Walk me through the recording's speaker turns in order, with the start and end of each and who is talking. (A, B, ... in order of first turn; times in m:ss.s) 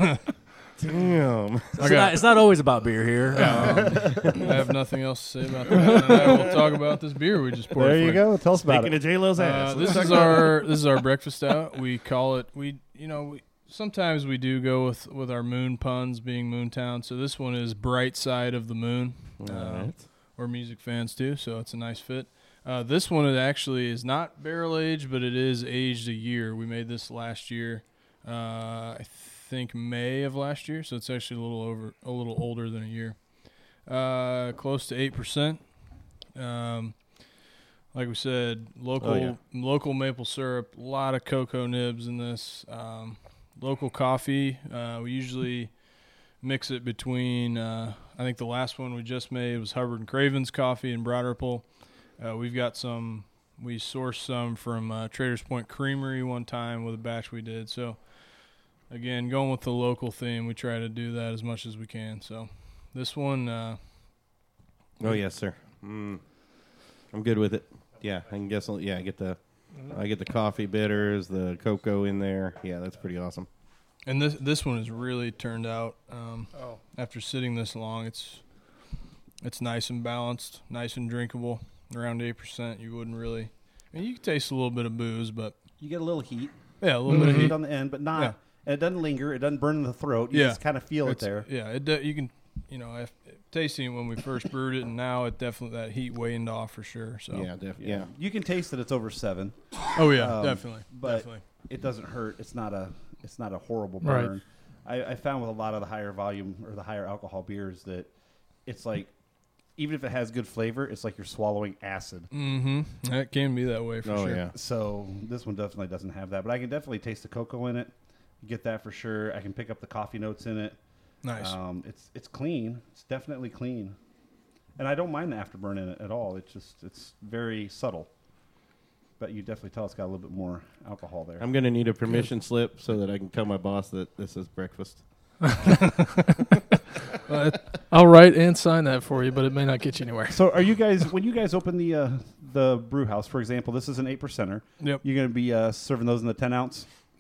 0:00.8-0:01.9 A
0:01.8-0:04.3 B
0:01.8-0:02.5 C
0:03.3-0:08.2 C
0:03.7-0:04.4 A
0:07.7-0:09.0 D
0:08.6-0:10.7 A
0:09.4-1:03.8 C
0:19.4-0:20.0 A
0:39.0-0:39.4 A
1:05.0-1:06.2 A
1:07.1-1:13.5 A
1:14.0-1:18.6 C
1:19.4-1:25.6 C
1:25.8-1:31.5 D
1:26.8-1:27.6 C
1:27.1-1:27.5 E
1:30.3-1:37.5 C
1:37.3-1:38.1 A
1:37.8-1:48.1 D
1:39.9-1:41.4 C
1:44.0-1:44.3 E
1:48.7-1:49.1 D
1:49.8-1:52.3 D
1:52.3-1:54.4 C
1:54.0-1:54.5 A
1:54.5-2:00.8 D
2:01.2-2:01.6 C
2:01.3-2:04.0 D
2:04.8-2:08.1 D
2:09.2-2:11.4 D
2:11.4-2:15.0 A
2:15.6-2:16.1 C
2:17.3-2:17.8 C
2:17.9-2:20.4 E
2:20.3-2:26.9 D